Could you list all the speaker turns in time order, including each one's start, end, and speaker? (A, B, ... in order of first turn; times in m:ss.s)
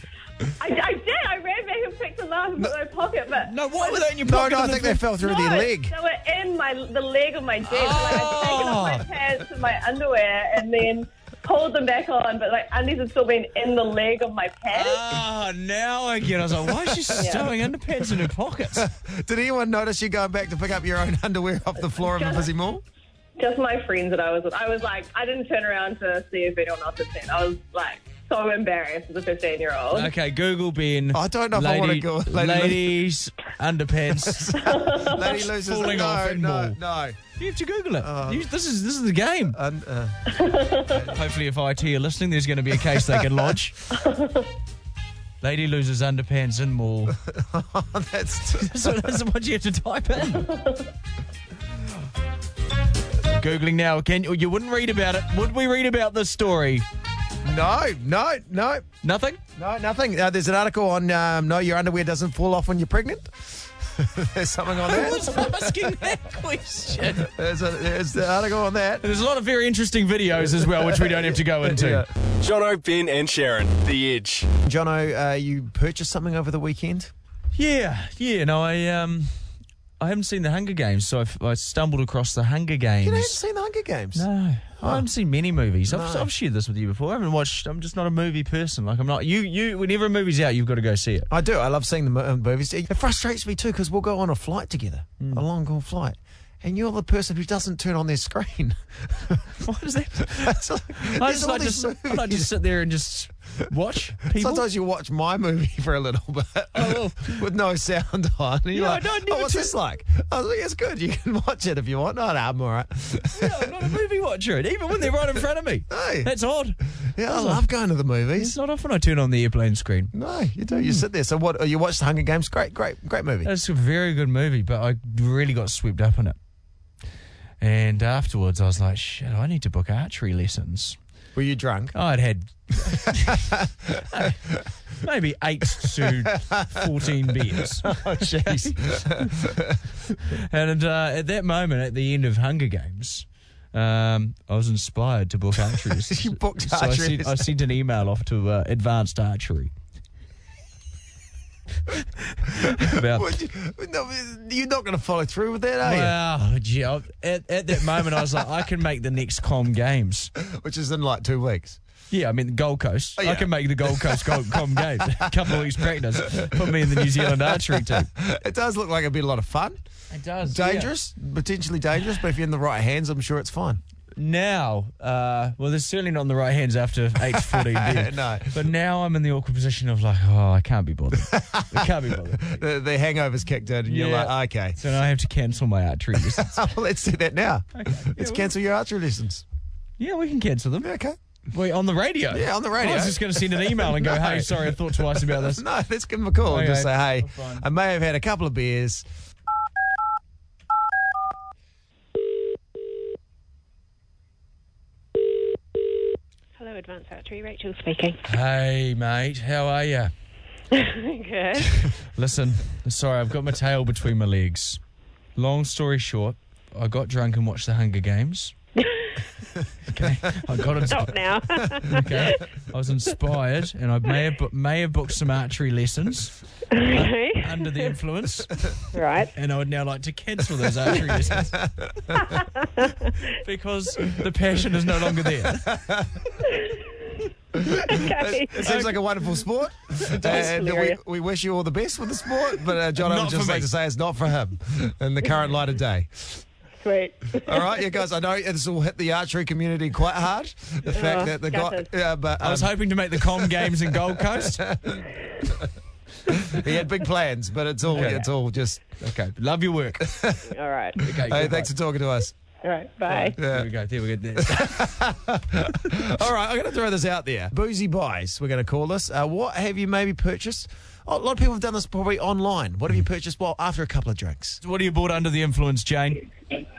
0:00.6-0:04.1 A
0:03.4-0:05.1 B
0:04.2-0:05.9 C
0:05.2-0:15.0 A
0:07.6-0:09.0 B
0:14.7-0:18.9 B
0:17.2-0:17.5 A
0:18.8-0:22.8 C
0:22.0-0:22.5 A
0:23.4-0:30.1 A
0:29.9-0:36.8 B
0:31.1-0:33.0 C
0:34.2-0:37.2 C
0:34.6-0:35.3 A
0:37.4-0:39.6 B
0:38.0-0:38.5 C
0:39.5-0:40.2 C
0:40.3-0:41.1 A
0:41.0-0:43.8 B
0:42.9-0:43.5 C
0:43.9-0:44.5 A
0:45.4-0:47.2 B
0:47.2-0:49.2 C
0:48.6-0:50.5 B
0:50.3-0:50.9 A
0:53.2-0:56.8 B
0:57.4-0:58.9 C
0:59.0-0:59.4 B
0:59.6-1:06.0 C
1:04.8-1:07.3 B
1:07.0-1:09.0 C
1:09.0-1:12.0 B
1:10.5-1:12.1 C
1:12.4-1:14.5 D
1:14.6-1:17.1 C
1:17.5-1:19.3 B
1:20.0-1:23.4 B
1:23.0-1:24.3 C
1:24.1-1:31.3 B
1:24.8-1:25.1 C
1:25.9-1:26.3 C
1:31.3-1:39.5 C
1:39.6-1:44.6 B
1:40.3-1:42.6 C
1:44.3-1:53.7 C
1:46.7-1:47.4 B
1:48.7-1:49.8 B
1:53.3-1:57.6 B
1:55.9-1:56.3 C
1:57.0-1:58.6 C
1:58.4-2:00.1 B
2:00.1-2:03.5 C
2:00.7-2:01.0 B
2:03.4-2:06.4 B
2:07.6-2:11.0 B
2:11.4-2:12.0 C
2:11.9-2:13.5 B
2:12.9-2:14.0 C
2:14.1-2:14.4 B
2:15.0-2:19.3 B
2:15.8-2:16.8 C
2:17.6-2:19.8 C
2:20.3-2:29.7 B
2:25.6-2:27.5 C
2:32.3-2:33.3 B
2:33.0-2:36.2 C
2:35.8-2:40.3 B
2:40.4-2:41.8 C
2:42.1-2:48.1 B
2:43.2-2:45.6 C
2:46.2-2:49.8 C
2:50.1-2:50.9 B
2:50.4-2:53.8 C
2:54.2-3:02.6 B
2:57.3-2:58.5 C
3:01.2-3:04.8 C
3:03.9-3:06.6 B
3:06.2-3:09.4 C
3:07.7-3:08.5 B
3:10.0-3:10.9 B
3:10.8-3:11.2 C
3:11.5-3:15.6 B
3:12.3-3:19.1 C
3:16.5-3:17.6 B
3:26.6-3:28.2 E
3:28.2-3:30.1 B
3:30.7-3:31.8 E
3:31.8-3:34.8 B
3:35.4-3:38.6 B
3:38.8-3:39.1 E
3:39.9-3:41.2 B
3:40.9-3:42.4 E
3:41.9-3:48.8 B
3:46.8-3:48.0 E
3:48.9-3:49.3 E
3:49.3-3:51.6 B
3:51.4-3:52.3 C
3:53.4-3:55.8 B
3:55.3-3:56.2 C
3:57.9-3:58.9 E
3:58.1-4:06.4 C
3:58.6-3:59.0 B
4:00.1-4:01.0 E
4:00.1-4:00.5 B
4:03.0-4:03.7 B
4:06.8-4:08.0 E
4:07.5-4:15.0 C
4:10.9-4:11.9 E
4:12.4-4:14.7 B
4:16.5-4:18.8 C
4:17.9-4:18.3 B
4:19.0-4:20.1 B
4:20.0-4:20.4 C
4:20.5-4:21.0 E
4:21.0-4:21.7 B
4:21.1-4:22.3 C
4:22.6-4:23.4 E
4:23.1-4:25.0 B
4:23.4-4:23.7 C
4:24.4-4:34.6 C
4:34.6-4:36.2 B